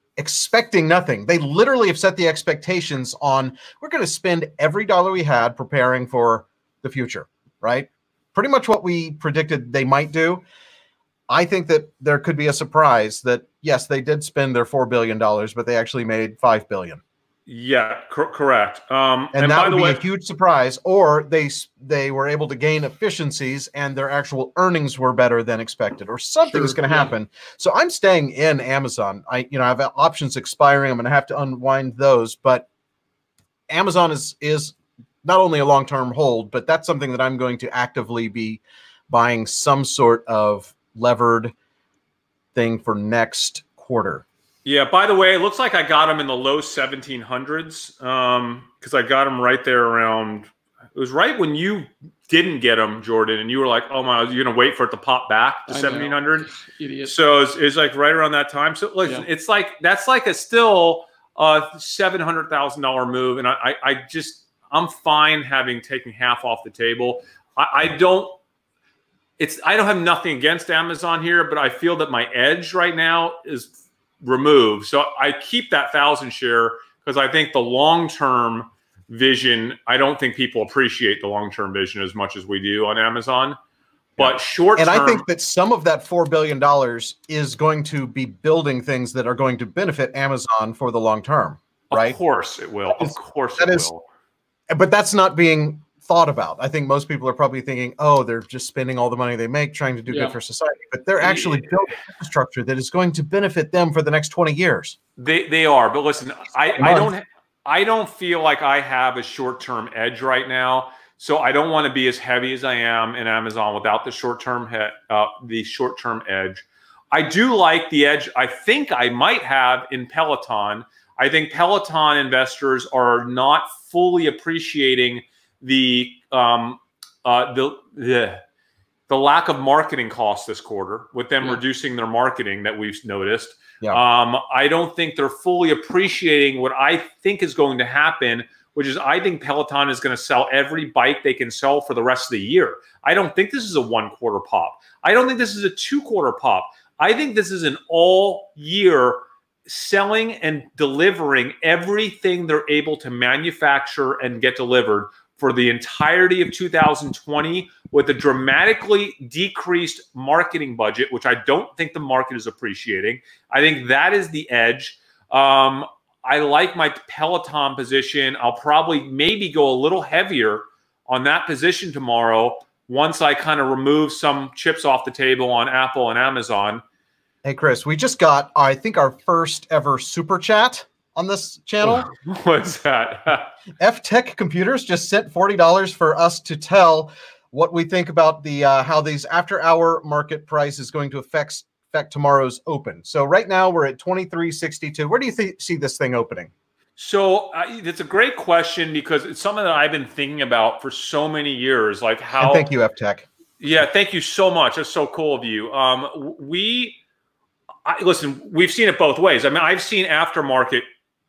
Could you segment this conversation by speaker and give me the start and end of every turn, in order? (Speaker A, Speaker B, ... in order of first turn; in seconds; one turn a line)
Speaker A: 0.2-10.4
Speaker A: 11.3-17.0
Speaker B: 17.5-20.0
Speaker A: 19.3-32.6
Speaker C: 26.5-27.1
Speaker A: 33.7-41.5
Speaker A: 42.5-44.2
Speaker B: 44.6-56.5
Speaker C: 55.7-57.1
Speaker B: 57.0-68.3
Speaker B: 69.4-83.6
Speaker B: 84.2-85.2
Speaker A: 84.2-92.2
Speaker B: 91.9-94.0
Speaker A: 92.9-93.9
Speaker A: 94.7-105.0
Speaker C: 100.1-100.3
Speaker B: 101.2-101.7
Speaker B: 105.2-128.4
Speaker A: 106.8-107.1
Speaker B: 129.1-176.8
Speaker A: 177.4-182.1
Speaker B: 181.8-183.5
Speaker A: 183.8-196.5
Speaker B: 197.0-202.7
Speaker A: 202.3-203.3
Speaker B: 203.6-207.0
Speaker B: 207.8-210.8